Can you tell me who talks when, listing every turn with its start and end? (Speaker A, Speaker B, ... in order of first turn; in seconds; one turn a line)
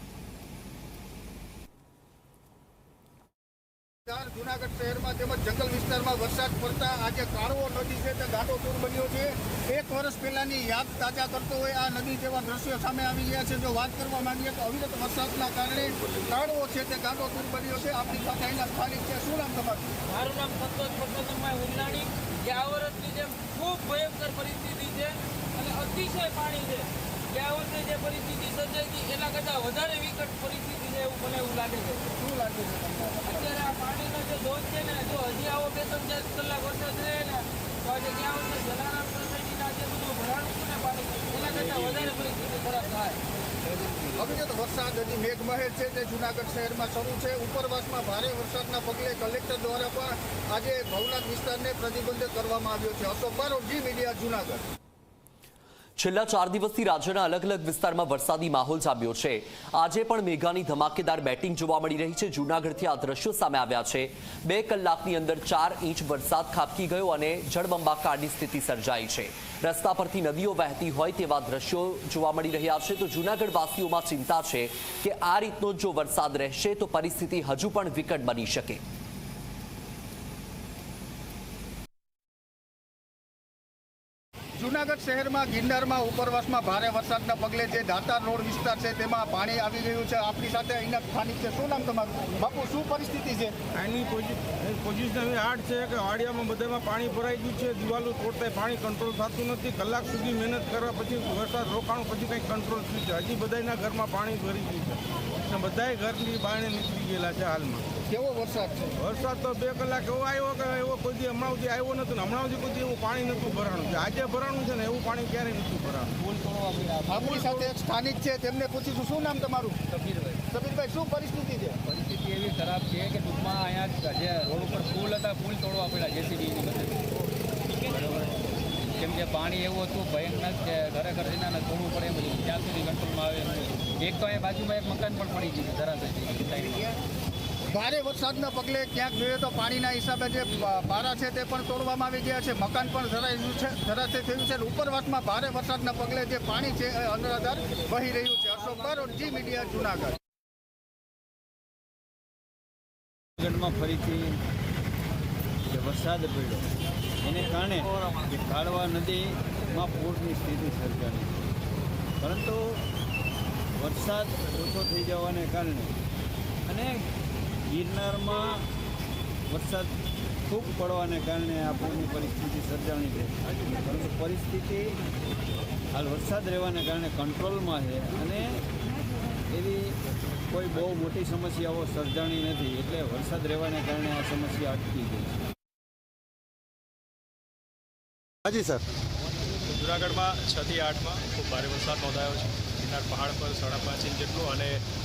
Speaker A: 4.1-20.0
Speaker B: 20.1-32.1
Speaker A: 32.1-33.6
Speaker B: 33.3-43.2
Speaker A: 44.1-54.6
Speaker C: 56.0-78.8
Speaker A: 84.6-93.5
Speaker D: 93.7-107.9
Speaker A: 108.1-109.0
Speaker D: 109.0-116.2
Speaker E: 116.2-117.3
Speaker A: 117.1-119.8
Speaker E: 119.9-120.4
Speaker A: 120.5-121.8
Speaker E: 121.9-127.0
Speaker E: 127.8-128.4
Speaker E: 128.9-136.9
Speaker A: 137.7-150.2
Speaker F: 153.4-154.4
Speaker F: 155.7-156.7
Speaker F: 157.2-161.5
Speaker F: 162.2-162.8
Speaker F: 163.8-165.9
Speaker F: 166.7-167.1
Speaker F: 167.7-168.7
Speaker F: 169.5-175.0
Speaker F: 175.9-178.7
Speaker F: 179.5-185.4
Speaker G: 189.7-194.8